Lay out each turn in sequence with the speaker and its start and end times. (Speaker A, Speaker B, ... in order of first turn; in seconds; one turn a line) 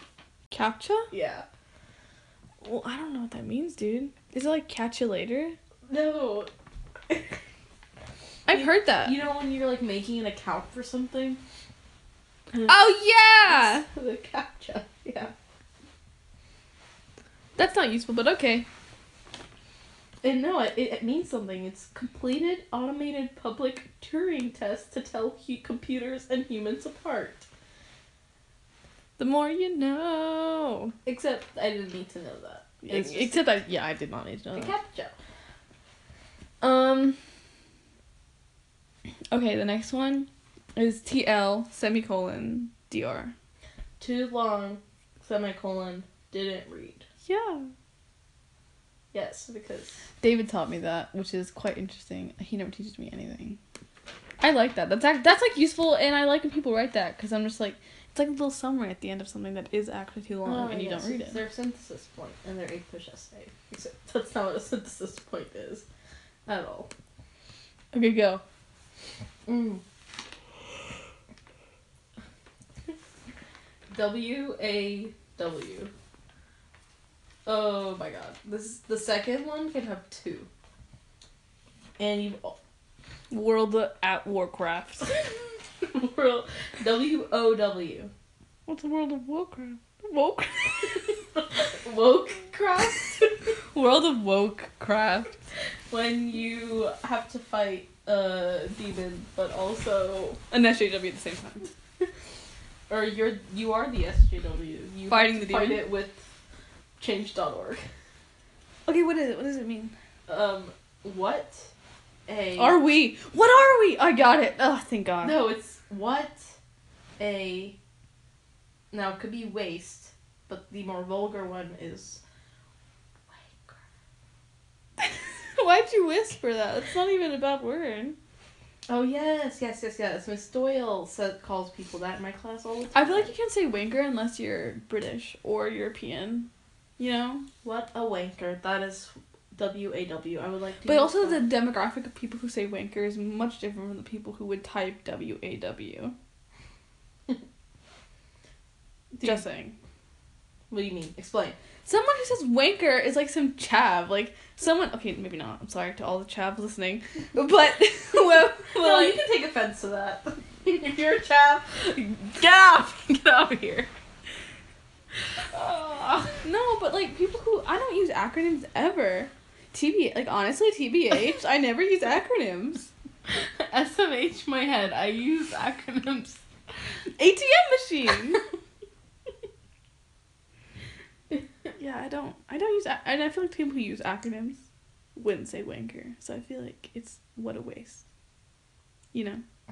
Speaker A: 0.5-1.1
Speaker B: 1.1-1.5
Speaker A: 2.6-5.6
Speaker B: 5.9-6.5
Speaker B: 7.1-7.4
Speaker A: 8.5-9.2
Speaker B: 8.5-11.4
Speaker B: 12.5-12.8
Speaker A: 12.7-13.9
Speaker B: 13.5-15.3
Speaker A: 17.6-18.7
Speaker B: 20.2-27.5
Speaker A: 29.2-30.9
Speaker B: 31.1-33.5
Speaker A: 32.8-34.7
Speaker B: 34.5-35.1
Speaker A: 36.6-37.2
Speaker A: 39.3-43.3
Speaker B: 44.0-47.1
Speaker A: 47.2-47.7
Speaker B: 49.1-50.0
Speaker A: 50.2-53.6
Speaker A: 54.4-61.4
Speaker B: 60.5-65.9
Speaker B: 66.5-66.9
Speaker A: 67.9-68.4
Speaker B: 69.5-69.8
Speaker B: 73.9-75.9
Speaker B: 77.5-80.5
Speaker B: 82.0-82.6
Speaker A: 83.3-85.1
Speaker B: 85.8-88.1
Speaker A: 88.7-91.2
Speaker B: 91.4-93.4
Speaker A: 93.7-95.3
Speaker B: 95.9-100.4
Speaker A: 100.5-101.7
Speaker B: 102.9-106.2
Speaker A: 105.1-105.9
Speaker B: 107.0-107.9
Speaker A: 108.9-109.9
Speaker B: 110.3-111.7
Speaker B: 112.3-112.8
Speaker A: 112.6-115.4
Speaker B: 115.2-116.5
Speaker B: 117.2-117.8
Speaker B: 118.9-122.2
Speaker B: 123.3-123.8
Speaker A: 125.0-128.2
Speaker B: 128.9-133.3
Speaker A: 132.9-137.5
Speaker B: 137.6-141.5
Speaker A: 140.8-146.2
Speaker B: 149.1-149.4
Speaker A: 149.2-149.8
Speaker B: 150.7-151.6
Speaker A: 151.8-159.2
Speaker B: 158.7-163.9
Speaker B: 165.5-166.4
Speaker A: 166.4-172.9
Speaker B: 173.3-176.4
Speaker A: 177.2-178.4
Speaker A: 181.8-184.6
Speaker A: 185.2-188.0
Speaker A: 189.1-189.4